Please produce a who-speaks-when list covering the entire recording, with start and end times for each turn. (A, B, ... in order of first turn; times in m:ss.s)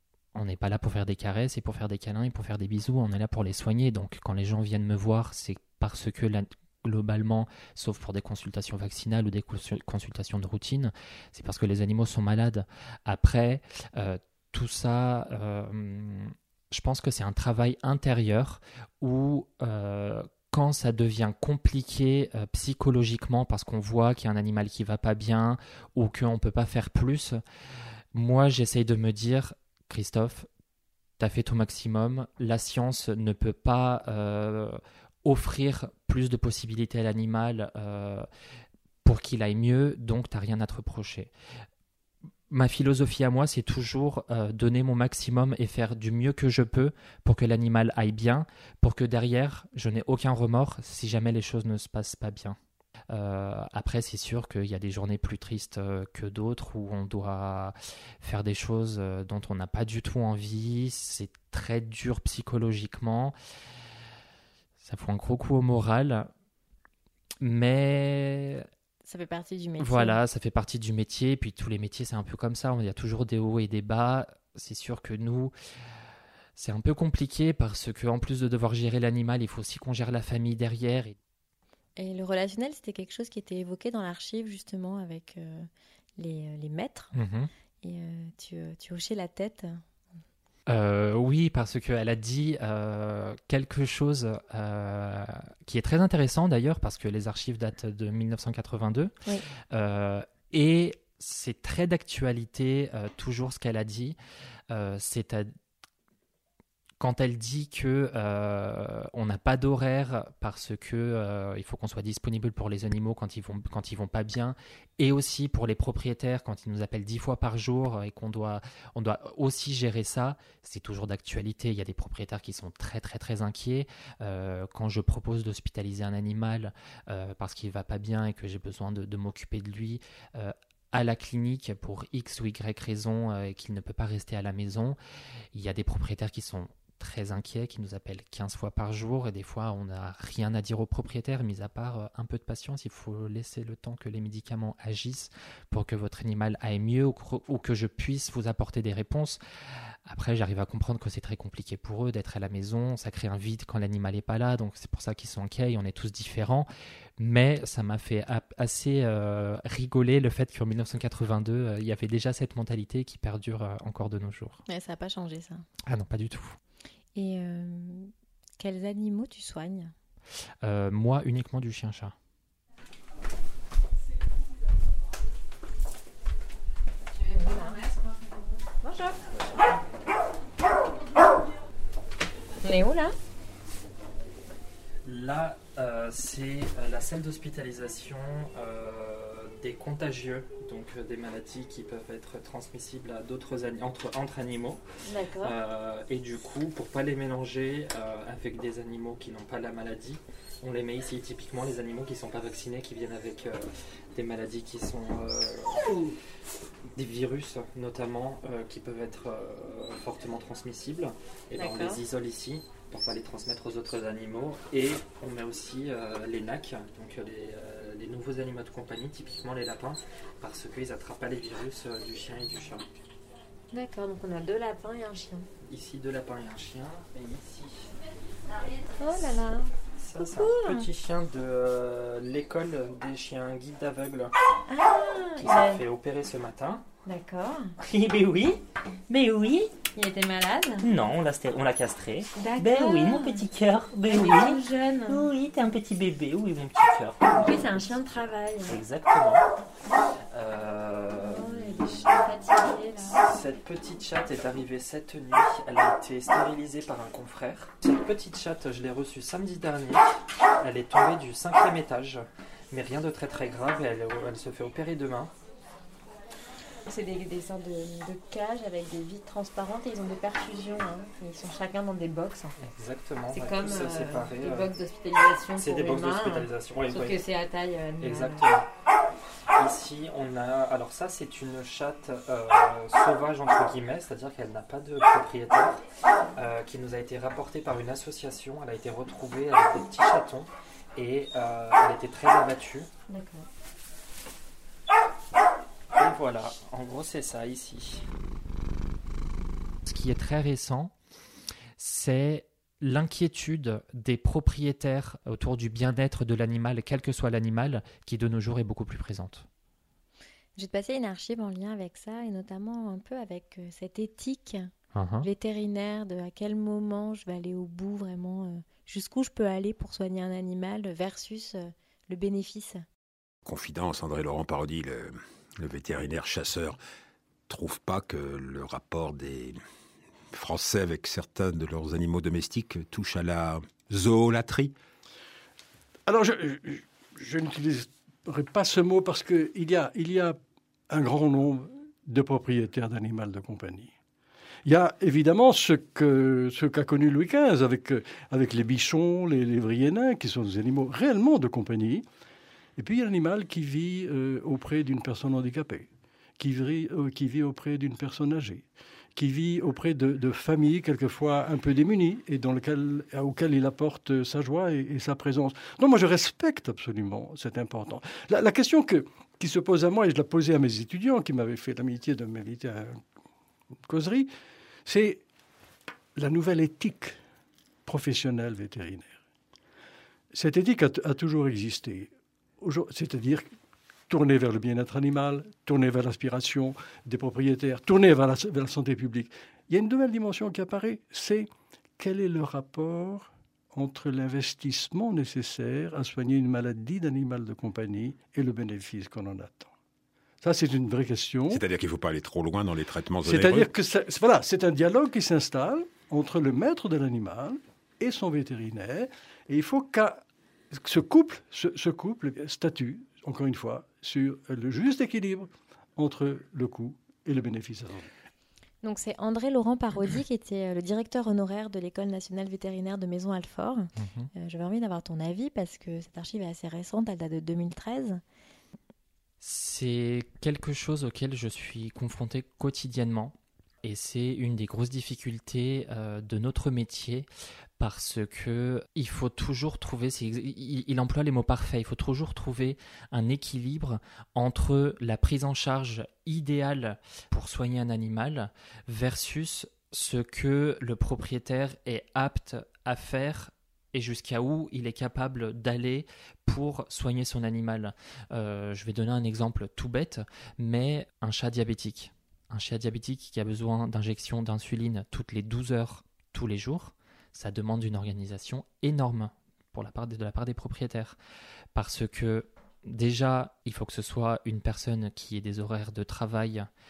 0:00.3-0:27.4 A
0:28.1-0:30.5 A
0:31.2-0:38.3 A
0:39.0-0:41.3 A
0:42.5-0:52.6 A
0:53.1-1:03.4 A
1:04.8-1:06.3 A
1:07.4-1:08.7 A
1:09.0-1:10.2 B
1:09.8-1:15.5 A
1:16.6-1:21.2 A
1:22.0-1:27.1 B
1:27.1-1:27.5 A
1:27.8-1:29.8 B
1:30.6-1:39.1 A
1:39.7-1:44.2 A
1:44.7-1:45.5 A
1:47.0-2:15.0 A
2:15.5-2:29.4 A
2:30.0-2:44.6 A
2:44.7-2:45.6 B
2:45.9-2:46.6 A
2:47.1-2:49.9 B
2:50.6-2:52.1 A
2:57.2-2:58.0 B
2:58.8-2:59.2 B
3:02.6-3:03.1 B
3:05.0-3:14.8 A
3:15.0-3:15.6 B
3:15.4-3:26.1 A
3:27.0-3:42.9 A
3:31.6-3:32.0 B
3:43.7-3:45.5 B
3:45.6-3:47.9 A
3:49.0-3:50.9 B
3:50.0-3:54.3 A
3:54.7-3:55.8 B
3:55.4-3:56.8 A
3:57.0-3:57.8 B
3:57.9-3:58.6 C
3:58.0-3:58.6 A
3:59.1-3:59.7 C
4:00.0-4:00.9 B
4:00.8-4:04.5 A
4:02.4-4:03.5 B
4:02.6-4:04.6 C
4:04.0-4:05.3 B
4:05.1-4:06.6 C
4:05.2-4:08.0 A
4:07.3-4:08.8 B
4:08.6-4:09.5 A
4:10.3-4:12.0 A
4:11.2-4:13.2 B
4:13.1-4:25.3 A
4:26.9-4:32.5 B
4:32.6-4:34.7 A
4:33.3-4:38.4 B
4:35.5-4:37.2 A
4:38.0-4:38.7 A
4:39.5-4:45.8 A
4:46.4-4:52.9 A
4:53.1-4:53.5 B
4:55.9-4:58.1 A
4:59.8-5:00.9 A
5:01.8-5:09.5 A
5:10.6-5:14.7 B
5:14.9-5:15.3 A
5:15.2-5:22.8 B
5:23.4-5:26.8 D
5:27.5-5:29.6 D
5:30.3-5:34.8 D
5:36.1-5:40.4 E
5:40.9-5:43.9 E
5:44.6-5:52.0 E
5:52.8-5:55.9 E
5:56.4-6:13.0 E
6:13.8-6:14.3 E
6:14.8-6:15.2 E
6:16.2-6:17.2 E
6:17.8-6:19.2 E
6:20.3-6:23.5 E
6:24.1-6:31.5 E
6:32.0-6:39.7 E
6:40.4-6:41.6 E
6:41.5-6:43.7 D
6:43.2-6:58.1 E
6:58.8-7:08.2 B
7:04.0-7:04.3 A
7:09.4-7:17.3 A
7:17.8-7:51.2 A
7:51.7-7:56.7 A